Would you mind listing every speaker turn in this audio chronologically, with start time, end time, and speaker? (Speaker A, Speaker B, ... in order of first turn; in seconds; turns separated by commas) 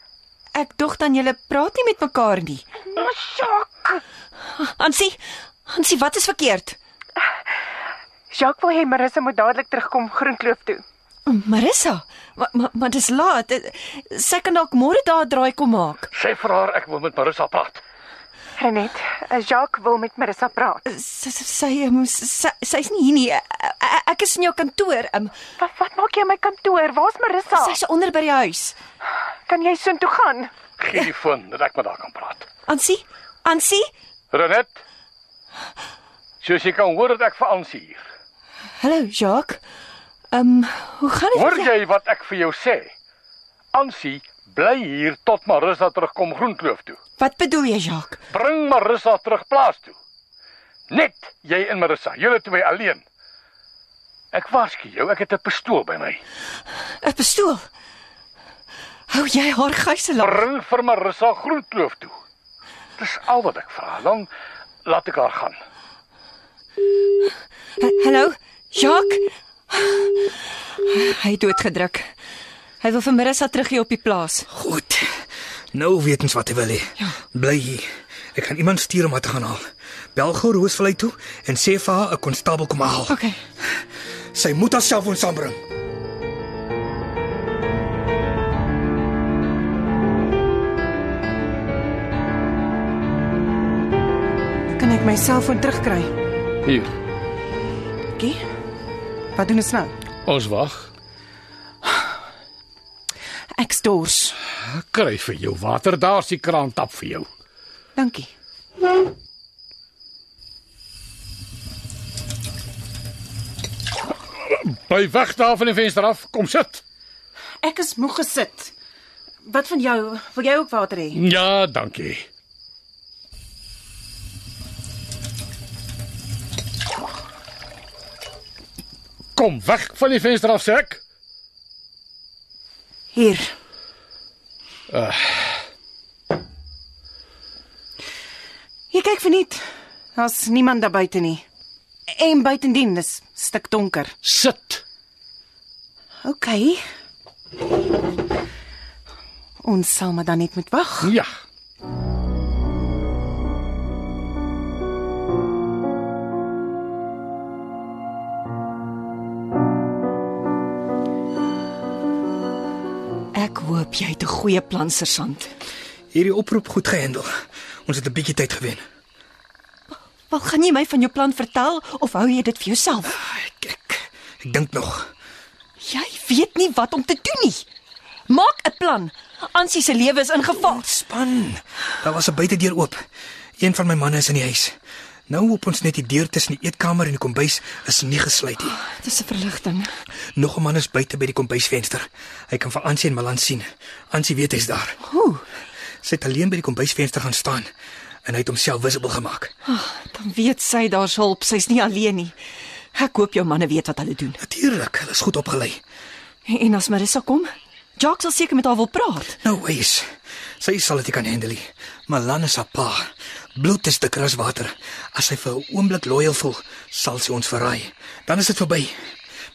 Speaker A: 0.5-2.6, Speaker B: 2.9-4.0, Speaker A: 4.5-6.8, Speaker B: 8.3-10.8, Speaker A: 11.2-16.1, Speaker C: 16.1-17.8, Speaker B: 18.6-20.8, Speaker A: 20.8-25.3, Speaker B: 25.6-27.8, Speaker A: 27.5-28.8, Speaker B: 29.5-30.5, Speaker C: 30.8-32.5, Speaker A: 32.7-33.9, Speaker C: 34.3-34.8, Speaker C: 36.4-38.0, Speaker A: 38.8-39.6, Speaker A: 40.3-41.7, Speaker C: 41.3-42.9, Speaker C: 43.7-47.0, Speaker A: 47.2-48.2, Speaker C: 48.3-49.9, Speaker C: 50.9-53.0, Speaker C: 54.3-56.2, Speaker A: 57.0-57.7, Speaker A: 59.1-60.4, Speaker C: 60.2-62.1, Speaker C: 63.0-64.3, Speaker C: 64.8-65.5, Speaker A: 67.8-70.1, Speaker A: 70.8-72.1, Speaker A: 72.8-74.5, Speaker D: 74.5-75.2, Speaker D: 75.7-79.6, Speaker D: 80.1-83.2, Speaker A: 83.1-83.4, Speaker D: 84.3-85.6, Speaker B: 94.8-96.1, Speaker C: 96.6-96.9, Speaker B: 98.1-98.4, Speaker B: 99.3-99.9, Speaker C: 100.2-100.9, Speaker B: 103.5-104.3, Speaker C: 104.6-107.3, Speaker B: 108.0-108.3, Speaker C: 114.4-116.8, Speaker B: 117.6-118.7, Speaker B: 119.4-121.2, Speaker C: 121.1-122.2, Speaker C: 129.3-131.0, Speaker B: 133.1-133.5, Speaker C: 134.9-135.6, Speaker B: 138.9-139.6, Speaker B: 140.1-141.4, Speaker B: 142.1-144.1, Speaker C: 144.2-144.8, Speaker B: 146.2-146.8, Speaker B: 149.6-151.1, Speaker C: 151.0-151.3, Speaker A: 163.3-165.5, Speaker D: 166.1-167.3, Speaker D: 167.8-168.8, Speaker A: 170.3-173.2, Speaker D: 173.1-175.1, Speaker A: 175.8-177.7, Speaker A: 178.3-180.9, Speaker D: 180.5-183.0, Speaker D: 183.6-184.7, Speaker D: 185.3-188.8, Speaker A: 188.7-189.9, Speaker D: 190.3-195.0, Speaker A: 195.1-195.4, Speaker D: 196.0-197.7, Speaker D: 198.2-199.5, Speaker A: 199.7-202.3, Speaker A: 202.9-204.4, Speaker D: 204.4-205.8, Speaker A: 206.4-209.4, Speaker D: 209.4-210.1, Speaker D: 210.6-219.0